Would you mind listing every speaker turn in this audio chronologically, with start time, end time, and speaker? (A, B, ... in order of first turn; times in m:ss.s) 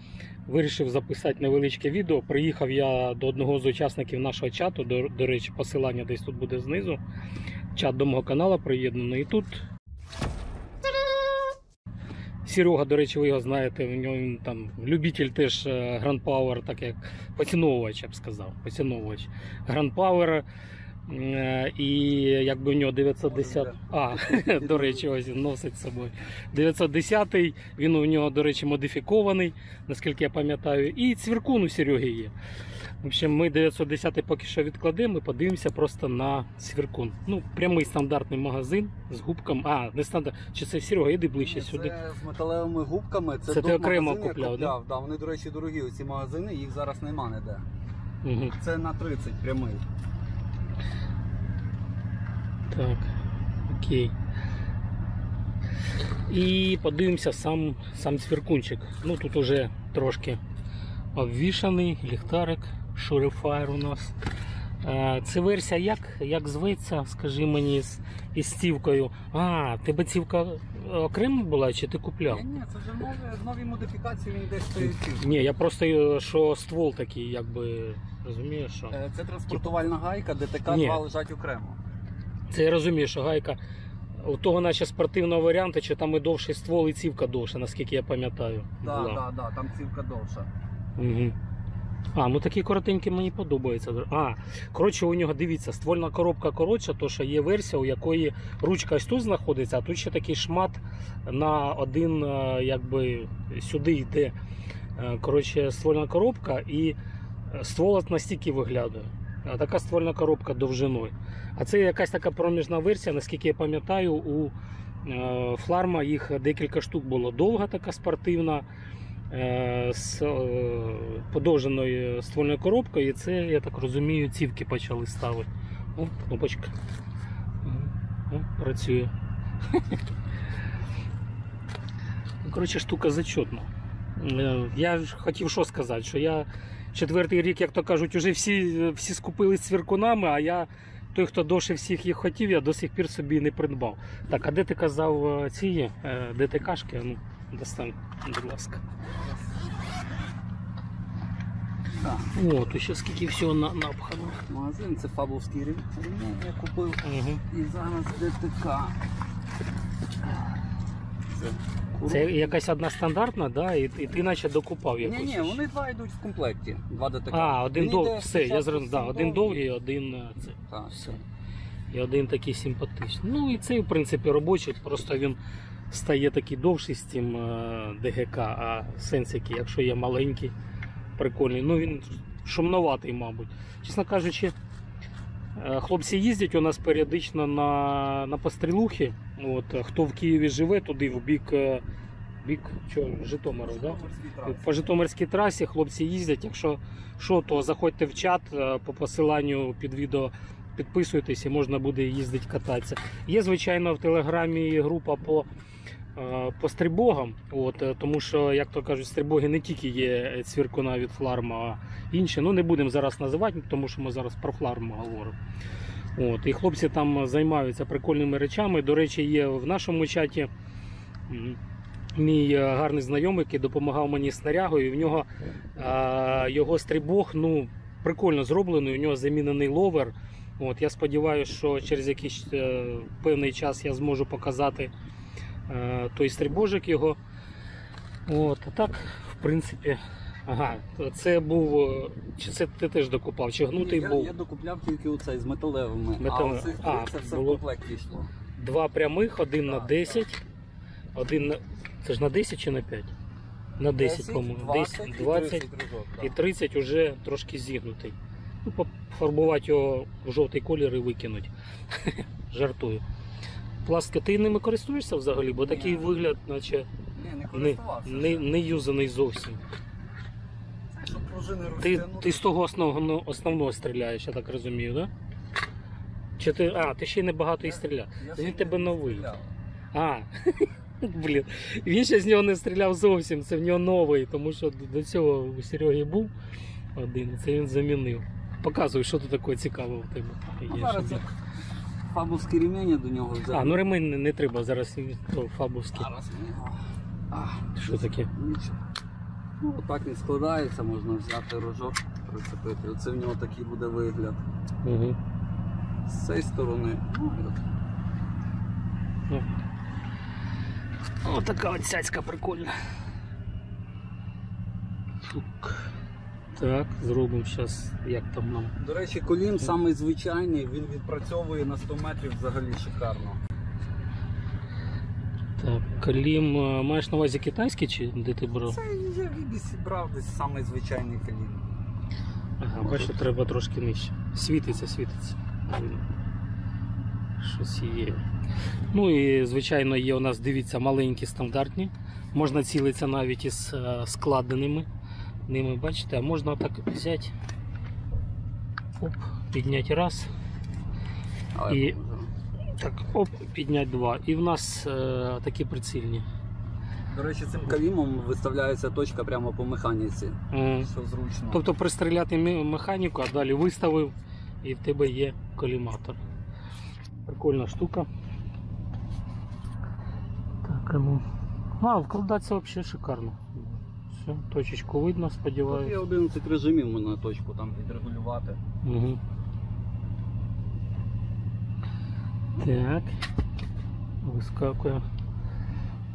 0:00.5-0:07.0 A
0:07.8-0:09.6 A
0:12.4-0:20.4 A
0:21.1-0:32.3 A
0:23.3-0:25.0 B
0:33.0-0:42.0 A
0:41.4-0:47.6 B
0:43.5-0:44.8 A
0:48.2-0:48.6 A
0:48.6-0:49.8 B
0:52.7-0:53.1 A
0:53.7-0:54.1 A
0:56.3-1:00.4 A
1:01.1-1:04.2 A
1:04.8-1:12.4 A
1:12.3-1:15.3 B
1:14.8-1:19.0 A
1:18.9-1:21.8 B
1:20.7-1:21.0 A
1:22.5-1:23.6 A
1:24.2-1:29.2 A
1:28.8-1:30.5 B
1:31.0-1:31.4 A
1:32.1-1:44.4 A
1:45.0-1:47.0 A
1:47.5-1:54.5 A
1:55.0-1:58.7 A
1:59.3-2:06.7 A
2:07.6-2:09.1 A
2:09.7-2:10.0 A
2:12.4-2:28.8 A
2:31.9-2:32.3 B
2:32.3-2:34.4 A
2:34.5-2:39.0 B
2:37.0-2:37.4 A
2:41.3-2:42.6 B
2:42.1-2:45.6 A
2:45.0-2:49.6 B
2:47.3-2:51.2 A
2:50.7-2:51.0 B
2:51.9-2:55.4 A
2:55.9-3:00.5 A
3:01.2-3:04.6 A
3:05.6-3:11.8 A
3:12.4-3:25.5 A
3:13.6-3:14.9 B
3:26.2-3:35.4 A
3:36.2-3:40.5 A
3:41.3-3:41.6 A
3:42.2-3:54.9 A
3:55.7-3:57.2 A
3:58.3-4:04.3 A
4:03.8-4:08.3 B
4:06.2-4:07.6 A
4:08.6-4:10.4 A
4:09.6-4:10.2 B
4:11.2-4:13.1 A
4:13.8-4:15.7 A
4:14.0-4:16.4 B
4:16.2-4:23.0 A
4:23.8-4:26.9 A
4:25.6-4:26.1 B
4:27.2-4:28.5 B
4:27.5-4:29.6 A
4:30.9-4:32.4 B
4:31.8-4:35.1 A
4:36.4-4:39.3 A
4:37.6-4:39.5 B
4:39.9-4:46.3 A
4:47.0-4:51.2 A
4:50.7-4:51.3 B
4:52.0-4:53.8 B
4:53.5-4:56.1 A
4:55.9-4:57.7 B
4:57.8-4:58.3 A
4:58.3-4:58.8 B
4:59.6-5:04.4 B
5:04.8-5:05.2 A
5:06.1-5:07.6 B
5:11.2-5:12.7 A
5:15.2-5:15.9 A
5:16.6-5:18.7 A
5:18.8-5:23.4 B
5:25.6-5:28.8 A
5:28.6-5:31.6 B
5:32.6-5:36.1 A
5:32.8-5:33.2 B
5:37.4-5:38.2 A
5:38.9-5:44.9 A
5:45.5-5:47.3 A
5:49.0-5:50.3 A
5:51.6-5:52.3 B
5:51.7-5:52.0 A
5:52.8-5:56.3 A
5:57.1-6:01.6 B
6:00.5-6:00.9 A
6:01.5-6:06.2 A
6:07.3-6:08.1 A
6:10.6-6:11.2 A
6:11.8-6:16.0 A
6:15.7-6:18.6 B
6:18.8-6:19.2 A
6:22.6-6:23.2 A
6:24.2-6:25.0 A